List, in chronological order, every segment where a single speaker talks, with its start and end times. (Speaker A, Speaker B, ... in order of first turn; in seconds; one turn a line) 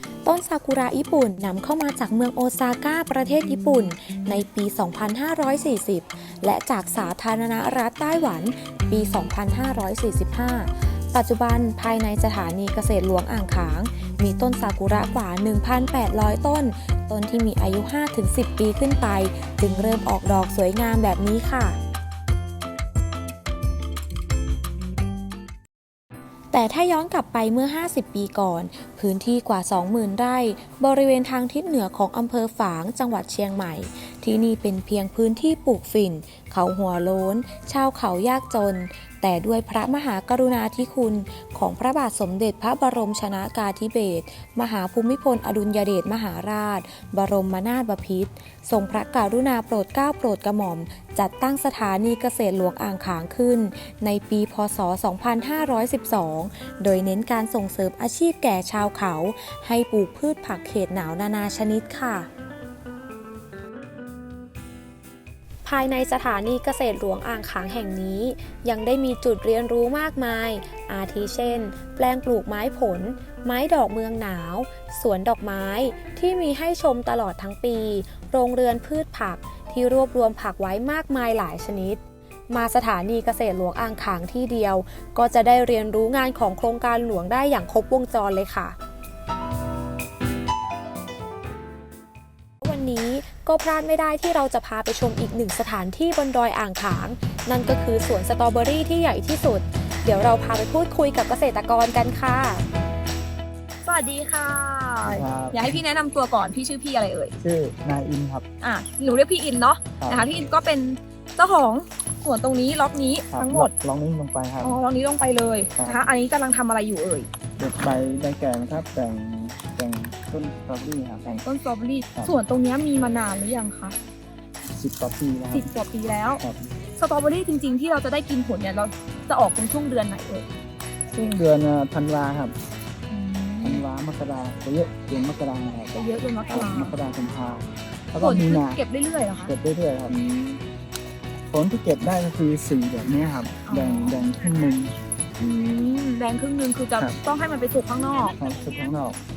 Speaker A: 0.2-21.8
Speaker A: 26.5-62.3
Speaker A: 65.6-88.8
Speaker A: 92.6-102.6
Speaker B: 103.8-107.4
Speaker C: 105.1-105.8
Speaker C: 107.4-108.4
Speaker B: 108.6-113.7
Speaker C: 110.0-110.2
Speaker C: 113.3-114.8
Speaker B: 114.6-117.3
Speaker C: 117.6-121.4
Speaker B: 121.4-123.9
Speaker C: 124.7-125.7
Speaker B: 125.5-126.4
Speaker B: 127.0-130.4
Speaker C: 131.1-132.5
Speaker B: 133.1-133.8
Speaker C: 133.6-135.9
Speaker B: 135.9-137.0
Speaker C: 136.5-138.8
Speaker B: 138.2-139.5
Speaker C: 139.4-140.1
Speaker B: 140.1-140.6
Speaker C: 141.5-144.9
Speaker B: 143.6-144.3
Speaker B: 145.4-148.4
Speaker C: 148.4-149.2